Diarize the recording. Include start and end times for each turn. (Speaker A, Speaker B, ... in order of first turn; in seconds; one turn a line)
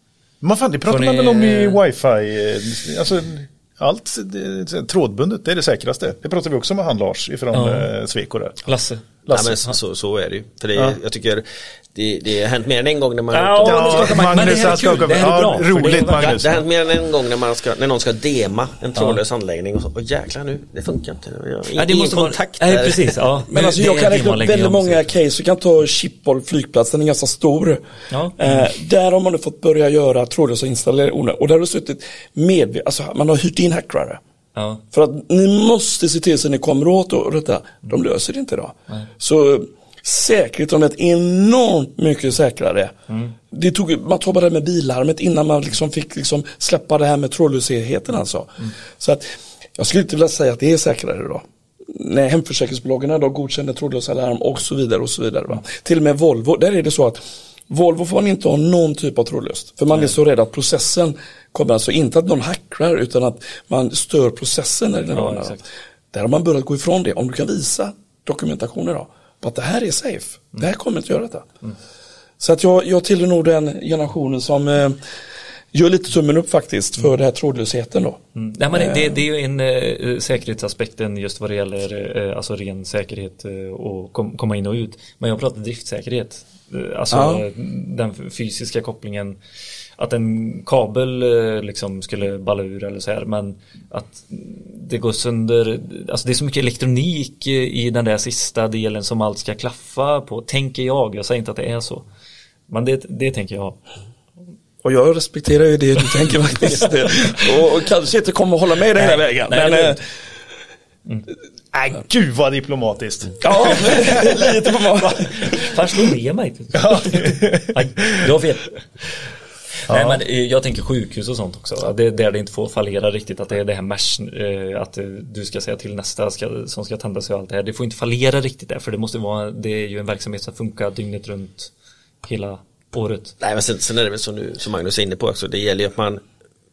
Speaker A: 0.4-8.6
Speaker B: 0.9-1.8
Speaker B: 7.5-7.9
Speaker B: 8.6-9.2
Speaker A: 9.3-9.5
Speaker C: 9.3-14.5
Speaker B: 13.3-16.6
Speaker A: 13.6-16.5
Speaker C: 16.2-23.2
Speaker B: 21.8-25.1
Speaker D: 23.5-27.9
Speaker B: 28.1-28.7
Speaker D: 28.4-34.2
Speaker B: 34.5-34.8
Speaker D: 34.9-42.9
Speaker B: 43.1-43.3
Speaker D: 43.5-65.6
Speaker B: 65.1-65.6
Speaker D: 66.1-71.5
Speaker D: 72.4-75.0
Speaker D: 75.7-78.2
Speaker B: 78.3-89.4
Speaker D: 78.7-79.2
Speaker D: 87.1-87.4
Speaker B: 90.0-102.0
Speaker B: 102.7-103.8
Speaker D: 104.8-110.0
Speaker B: 108.9-110.0
Speaker A: 111.7-114.3
Speaker D: 113.4-115.6
Speaker B: 113.7-114.2
Speaker B: 115.0-118.8
Speaker A: 116.7-118.3
Speaker B: 119.9-131.7
Speaker A: 119.9-120.2
Speaker B: 132.2-133.3
Speaker C: 133.4-136.2